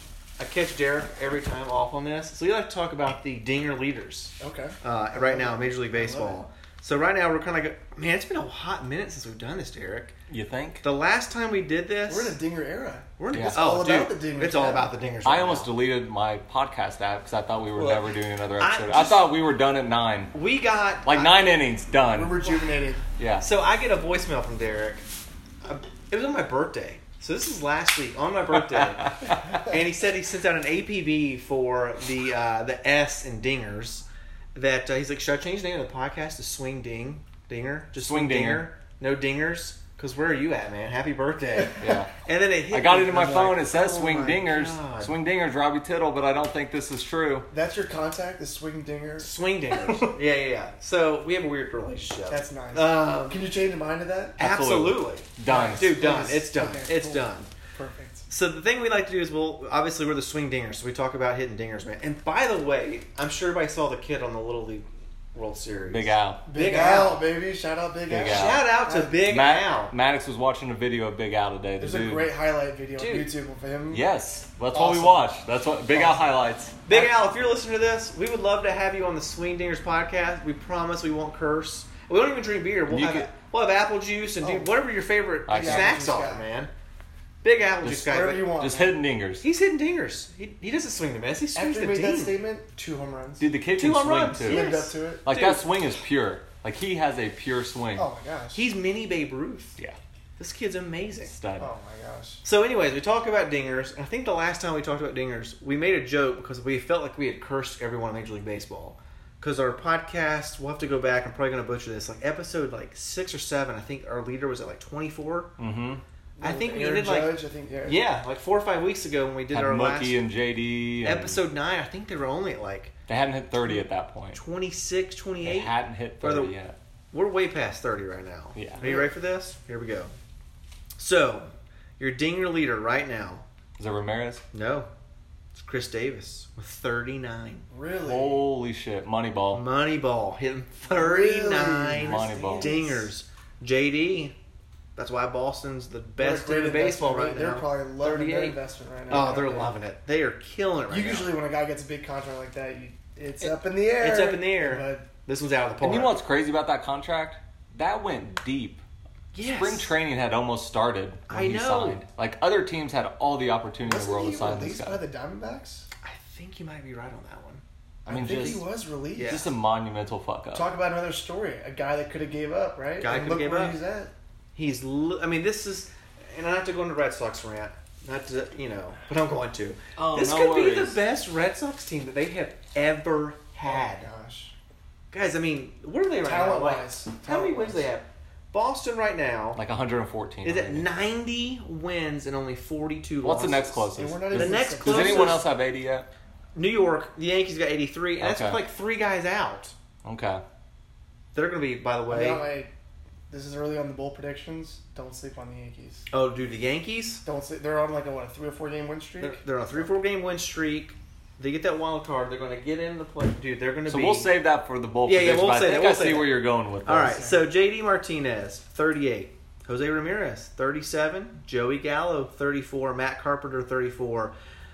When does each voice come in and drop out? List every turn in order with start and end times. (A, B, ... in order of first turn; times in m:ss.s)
0:00.4-0:10.1 A
0:04.4-0:06.5 B
0:10.3-0:10.8 C
0:10.8-0:12.4 A
0:12.1-0:14.9 B
0:13.2-0:15.7 A
0:13.3-0:13.6 C
0:15.2-0:20.3 C
0:17.8-0:19.3 A
0:20.3-0:21.5 A
0:21.0-0:22.4 C
0:22.0-0:23.0 B
0:23.2-0:23.5 C
0:23.4-0:25.0 A
0:25.6-0:43.7 A
0:38.0-0:38.7 C
0:41.8-0:42.1 C
0:42.7-0:47.5 C
0:43.3-0:44.4 B
0:44.2-0:45.2 A
0:47.5-0:49.3 B
0:49.2-0:53.4 A
0:52.3-0:54.4 B
0:54.4-0:57.5 A
0:54.4-0:55.9 C
0:55.4-0:58.3 B
0:58.3-1:07.2 A
1:05.9-1:06.4 C
1:06.5-1:09.2 B
1:08.1-1:08.7 C
1:08.3-1:09.9 A
1:09.2-1:12.3 C
1:11.8-1:14.0 B
1:13.0-1:13.3 A
1:13.9-1:16.8 C
1:14.7-1:15.3 B
1:15.9-1:16.3 B
1:16.9-1:26.7 A
1:22.9-1:23.3 C
1:24.4-1:24.7 B
1:25.5-1:26.0 C
1:25.5-1:26.5 B
1:27.4-1:28.5 A
1:27.8-1:29.0 B
1:27.8-1:29.4 C
1:29.4-1:32.4 A
1:31.5-1:33.4 B
1:33.4-1:34.6 C
1:33.7-1:35.6 A
1:34.4-1:35.3 B
1:35.2-1:38.1 C
1:38.0-1:38.6 B
1:38.5-1:39.8 A
1:40.4-1:41.3 A
1:41.2-1:41.7 C
1:41.6-1:42.4 B
1:42.4-1:55.5 A
1:55.6-1:56.0 C
1:56.4-1:58.0 B
1:56.4-2:00.2 A
1:59.5-2:01.4 C
2:01.0-2:02.9 A
2:03.1-2:04.4 C
2:04.3-2:06.5 A
2:05.4-2:06.8 C
2:07.1-2:10.1 A
2:08.5-2:08.9 C
2:08.8-2:09.1 B
2:11.0-2:13.4 A
2:13.8-2:14.4 C
2:14.5-2:14.9 A
2:15.5-2:17.6 A
2:17.7-2:18.5 B
2:18.0-2:19.6 C
2:19.5-2:24.3 A
2:20.9-2:23.1 B
2:22.0-2:22.7 C
2:25.0-2:28.6 A
2:26.2-2:29.8 B
2:29.1-2:31.4 A
2:30.9-2:35.1 B
2:33.4-2:36.2 A
2:35.8-2:38.8 C
2:39.3-2:39.9 A
2:39.4-2:45.0 C
2:41.3-2:42.0 A
2:43.8-2:45.9 B
2:46.0-2:47.6 A
2:48.1-2:48.6 C
2:48.1-2:49.4 B
2:48.2-2:48.6 A
2:49.2-2:49.5 A
2:49.2-2:50.7 C
2:50.5-2:54.1 B
2:53.0-2:53.8 A
2:54.5-3:04.1 A
3:00.0-3:01.0 C
3:03.6-3:04.5 B
3:05.1-3:09.6 A
3:06.2-3:07.9 B
3:09.6-3:10.9 C
3:10.4-3:15.4 A
3:13.2-3:16.1 C
3:13.9-3:15.4 B
3:16.5-3:19.7 A
3:18.2-3:18.6 C
3:20.0-3:20.4 C
3:21.3-3:22.4 A
3:22.1-3:22.7 B
3:23.3-3:26.0 B
3:26.1-3:27.2 A
3:27.2-3:29.4 B
3:29.2-3:34.3 A
3:33.9-3:37.2 C
3:35.0-3:44.3 A
3:37.0-3:37.4 B